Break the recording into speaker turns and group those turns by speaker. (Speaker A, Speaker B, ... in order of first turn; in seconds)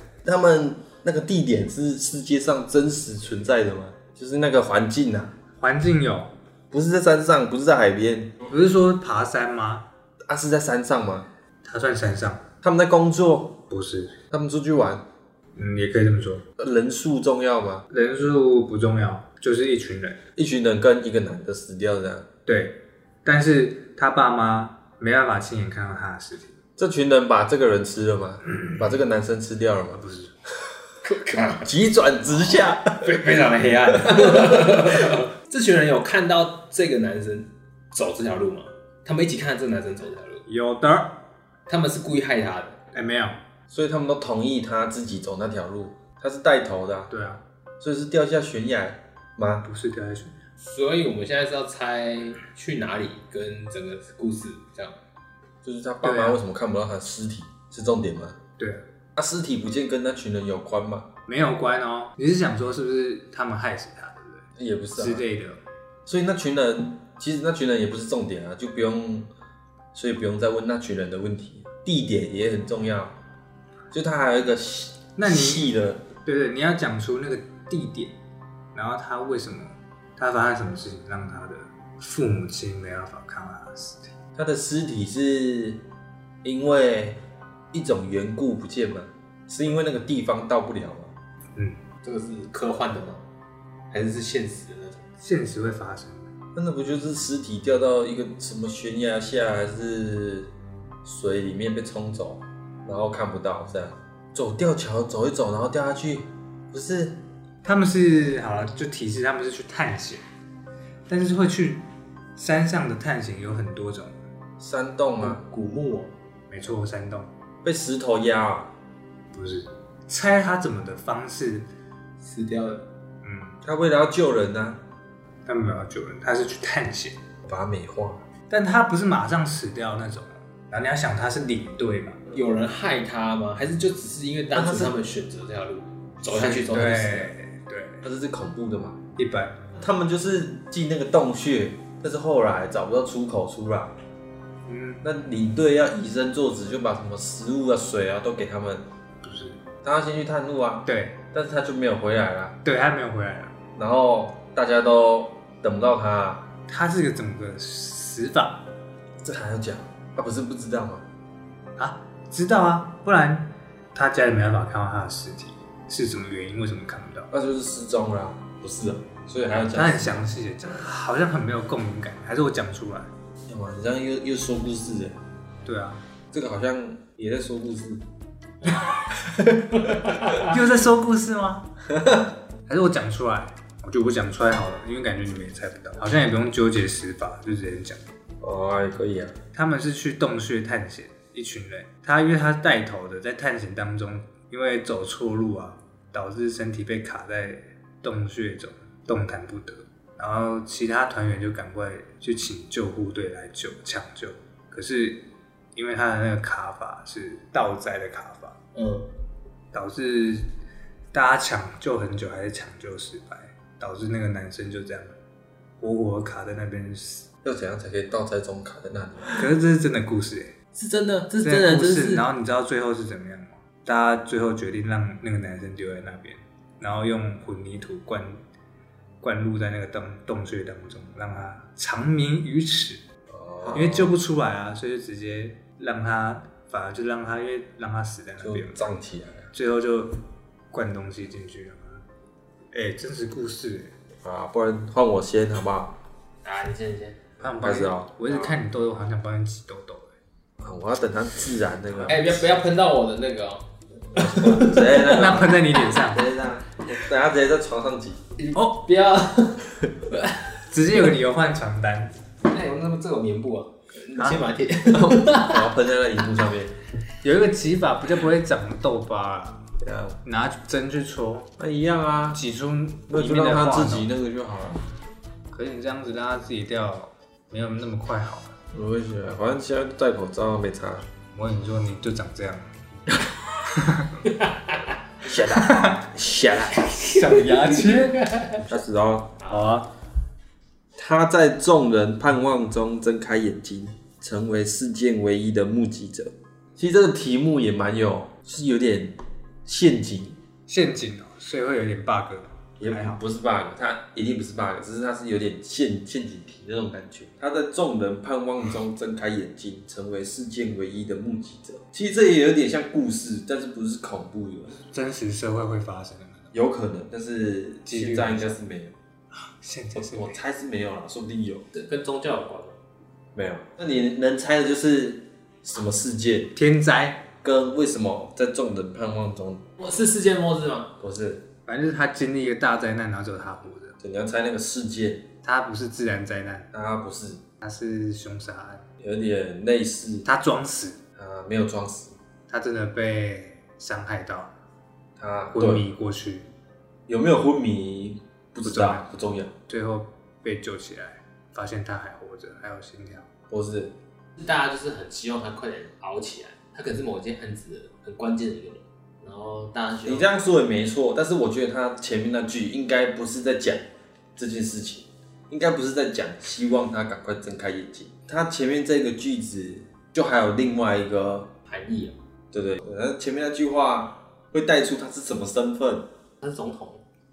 Speaker A: 0.2-5.3, 6.7-8.4, 10.3-11.3, 12.6-13.6, 14.3-15.0, 16.6-17.9, 20.4-22.3, 26.8-30.0, 31.6-33.3, 33.9-34.8, 43.7-47.1, 47.8-49.6, 55.6-58.4, 59.2-61.1, 64.6-65.2, 66.1-69.3, 69.9-73.2, 73.9-76.0, 84.3-85.8, 86.4-87.2, 87.7-91.1, 96.5-100.5, 101.0-107.2, 114.6-115.4, 117.6-118.7, 123.6-124.8, 127.5-128.2, 134.5-135.0, 138.0-139.0, 139.8-143.9, 145.0-148.8, 149.8-152.6, 153.8-156.5, 159.2-161.1, 167.3-170.2, 173.5-175.2, 176.3-178.0, 179.3-180.2, 181.9-182.2, 188.4-189.3, 217.4-219.4, 233.3-234.1, 238.4-239.5, 244.2-245.9, 247.6-248.6, 250.6-252.5, 254.2-258.2, 264.9-266.7, 269.8-270.2, 271.6-272.4, 273.1-274.9, 278.7-281.1, 285.2-286.9, 288.6-289.4, 291.0-300.4, 302.8-314.8, 316.5-318.9, 320.0-321.7, 323.4-326.5, 327.4-329.6, 331.0-331.4, 334.0-335.3, 336.7-337.4, 339.0-340.3, 341.2-342.2, 345.2-345.9, 347.1-349.5, 353.5-353.9, 360.1-371.5, 372.5-376.1
Speaker B: 5.6-6.3, 8.5-9.9, 11.6-12.4, 13.7-14.2, 15.6-16.4, 17.9-20.2, 22.5-26.6, 28.4-28.9, 30.0-30.3, 40.5-41.1, 42.9-43.4, 47.1-47.4, 49.6-50.4, 56.0-56.4, 61.3-65.6, 75.2-75.7, 76.2-78.1, 78.7-84.1, 95.2-96.3, 107.6-110.2, 111.1-111.8, 112.4-114.2, 116.5-117.3, 119.3-121.7, 123.2-123.6, 125.5-127.2, 128.5-132.2, 136.3-138.1, 139.2-139.6, 144.7-145.0, 149.2-149.6, 150.9-151.2, 152.6-153.6, 156.7-158.6, 161.8-167.3, 169.7-173.1, 175.7-176.0, 180.5-181.7, 182.7-188.1, 189.5-205.2, 205.8-208.6, 209.7-210.5, 211.1-215.2, 215.8-217.3, 219.4-220.6, 221.4-228.4, 229.2-233.0, 233.7-238.8, 239.5-240.2, 240.7-242.0, 242.7-243.9, 247.4-250.2, 254.9-256.3, 258.6-258.8, 260.7-262.1, 264.2-264.4, 267.2-269.7, 270.2-271.5, 272.4-274.1, 275.5-278.6, 281.3-283.0, 283.7-284.2, 285.5-286.0, 287.1-288.3, 289.5-289.9, 300.7-303.2, 314.9-316.5, 317.9-318.6, 319.3-320.4, 326.5-327.2, 331.7-334.0, 335.4-336.7, 337.6-338.8, 340.3-341.0, 342.5-344.5, 345.5-346.5, 348.6-349.1, 349.7-353.3
Speaker C: 31.0-31.7, 33.0-40.4, 41.7-42.8, 50.6-55.0, 92.0-93.2, 93.9-95.0, 115.2-116.1, 122.2-122.8, 132.3-137.3, 179.8-180.5, 208.8-209.1, 220.8-222.2, 246.4-247.2, 252.1-255.1, 258.4-260.5, 262.5-265.7, 284.3-284.8, 286.7-288.6, 321.7-322.8, 329.8-330.9, 354.4-360.3, 371.7-372.1, 376.4-377.0